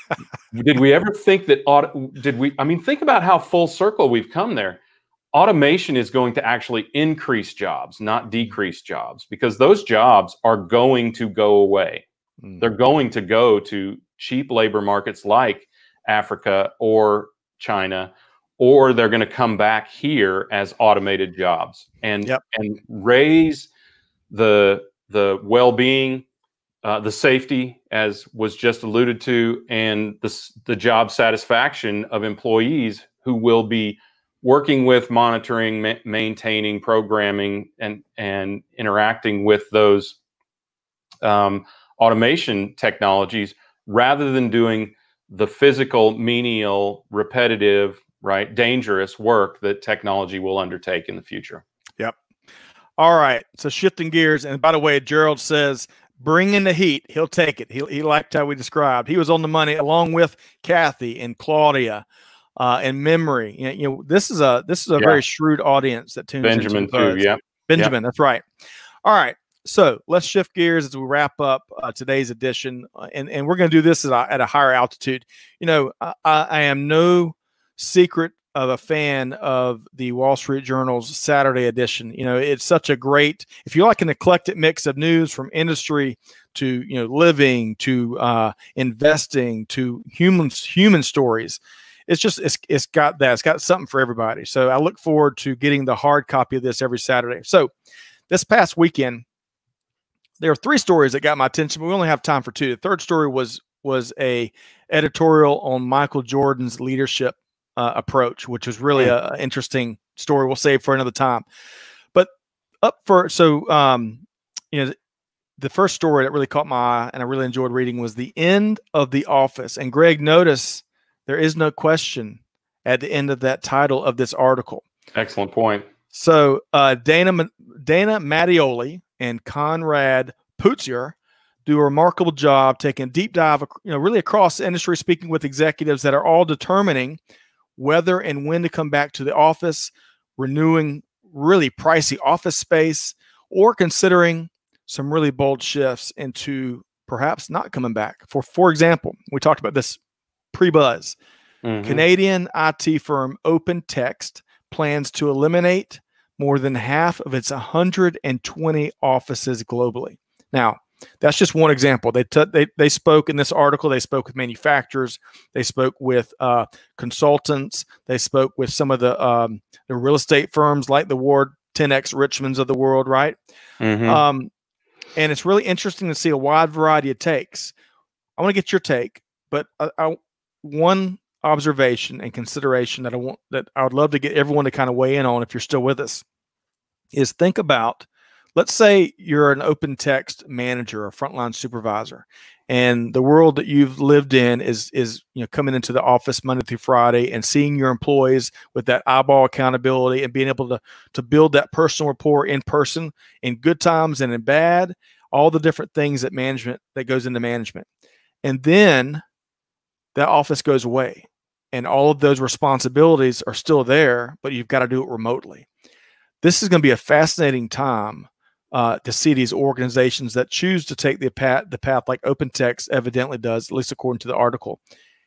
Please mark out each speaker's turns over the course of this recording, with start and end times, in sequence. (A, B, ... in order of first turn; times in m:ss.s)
0:00.5-0:04.8 A
0:05.3-0:12.0 A
0:12.6-0:23.7 A
0:24.3-0:26.2 A
0:26.8-0:40.2 A
0:41.2-0:51.6 A
0:53.0-1:02.0 B
1:02.6-1:08.4 B
1:06.4-1:07.9 A
1:09.0-1:37.7 B
1:38.3-1:39.2 B
1:40.4-1:51.5 B
1:52.8-1:55.0 B
1:55.6-2:04.8 B
2:05.2-2:05.9 A
2:06.1-2:17.2 B
2:17.8-2:30.0 B
2:30.5-2:31.2 B
2:31.6-2:32.0 A
2:31.8-2:53.4 B
2:53.8-2:54.2 A
2:54.0-2:54.5 B
2:55.2-2:57.7 B
2:58.4-3:06.2 B
3:07.1-3:27.9 B
3:28.4-3:29.2 B
3:30.2-3:35.7 B
3:36.4-3:44.8 B